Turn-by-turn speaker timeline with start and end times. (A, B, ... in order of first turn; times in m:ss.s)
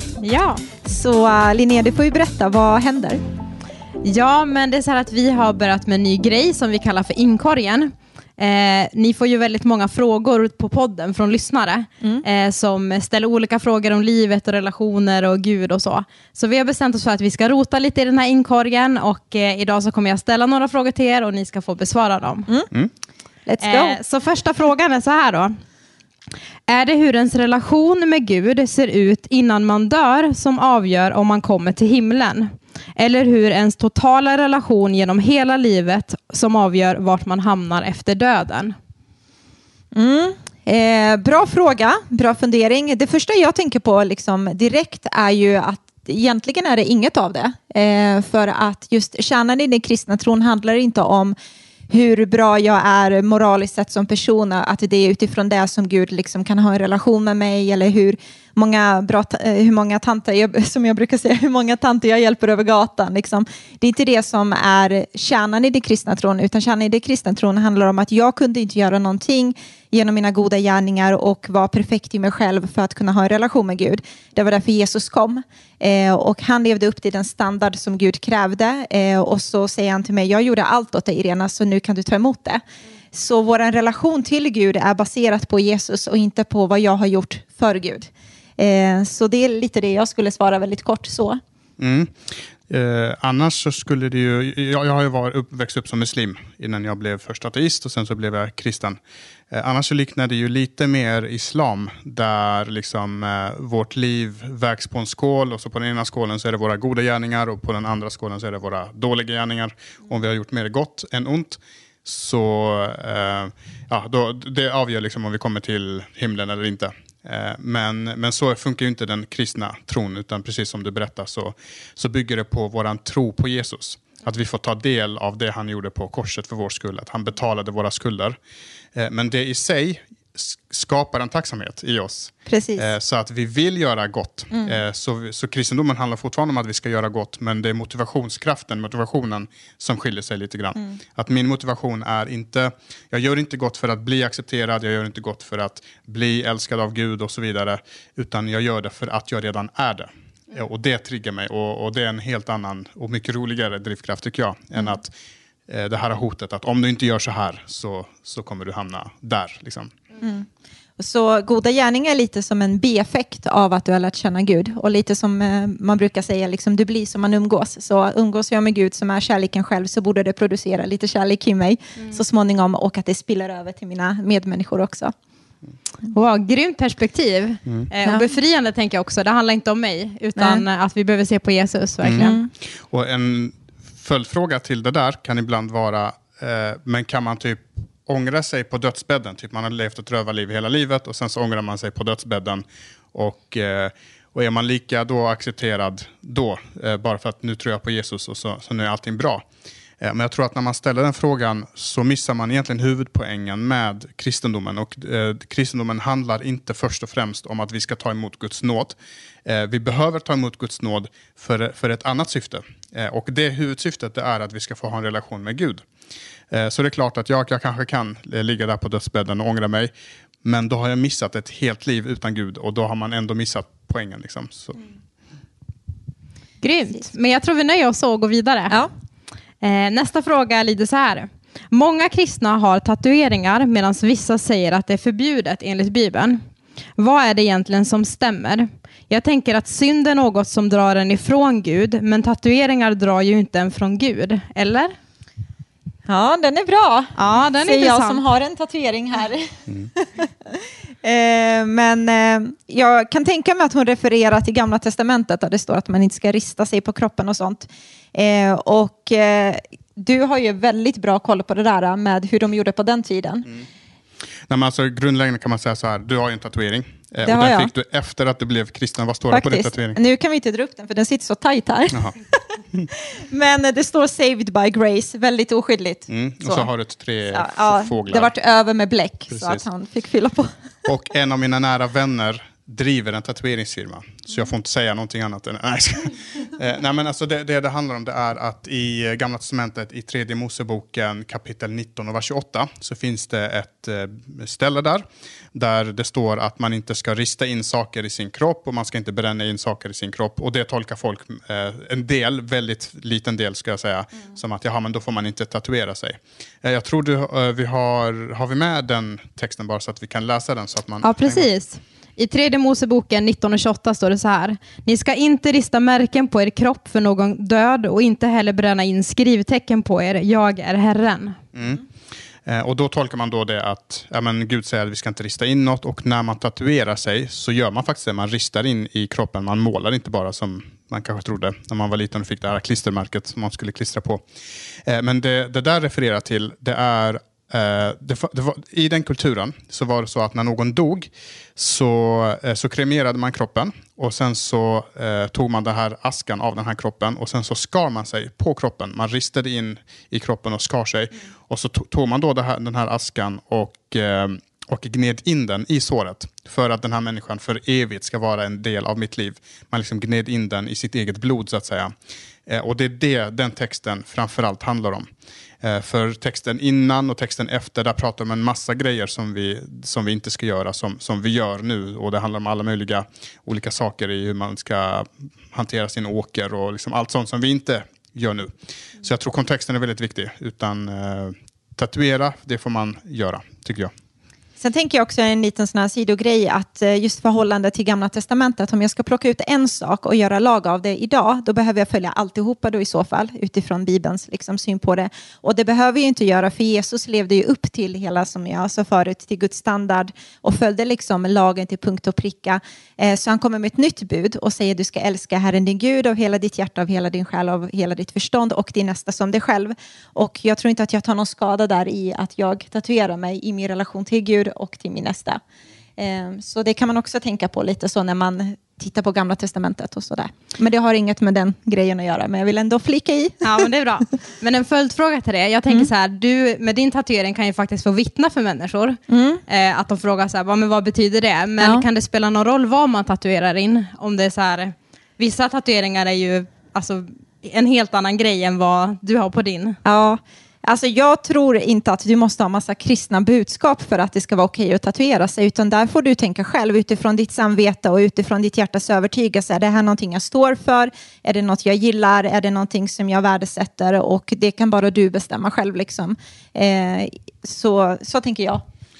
0:00.2-0:00.6 A
0:00.8-0:03.2 B
0:04.0-0:22.5 A
0:22.5-0:22.7 B
0:23.5-0:24.0 B
0:23.6-0:25.5 A
0:26.7-0:38.8 A
0:39.9-0:51.4 B
0:51.9-1:22.6 B
1:23.1-1:31.4 B
1:31.8-1:39.0 C
1:39.5-2:08.4 C
2:09.0-2:35.1 C
2:12.5-2:12.9 B
2:35.7-2:39.9 C
2:40.2-2:40.5 B
2:41.0-2:55.1 B
2:56.1-3:02.4 A
3:00.4-3:00.6 B
3:02.0-3:19.4 C
3:02.2-3:02.5 B
3:20.0-3:35.8 C
3:36.5-3:39.9 C
3:40.4-3:44.8 C
3:46.6-3:48.8 A
3:49.6-3:56.4 A
3:57.0-4:04.9 A
4:06.1-4:23.6 B
4:07.2-4:08.2 A
4:24.5-4:30.0 C
4:27.2-4:27.7 B
4:29.3-4:32.4 B
4:33.2-4:36.7 B
4:36.1-4:38.3 C
4:37.3-4:40.5 B
4:39.3-4:39.7 C
4:40.8-5:11.5 C
5:11.0-5:21.4 A
5:21.5-5:21.8 C
5:22.5-5:34.2 C
5:34.9-6:01.9 C
6:02.5-6:05.1 C
6:05.6-6:23.9 C
6:24.6-6:55.4 B
6:56.0-7:03.5 B
7:03.4-7:19.8 A
7:09.1-7:09.4 B
7:11.6-7:11.9 B
7:19.8-7:38.6 B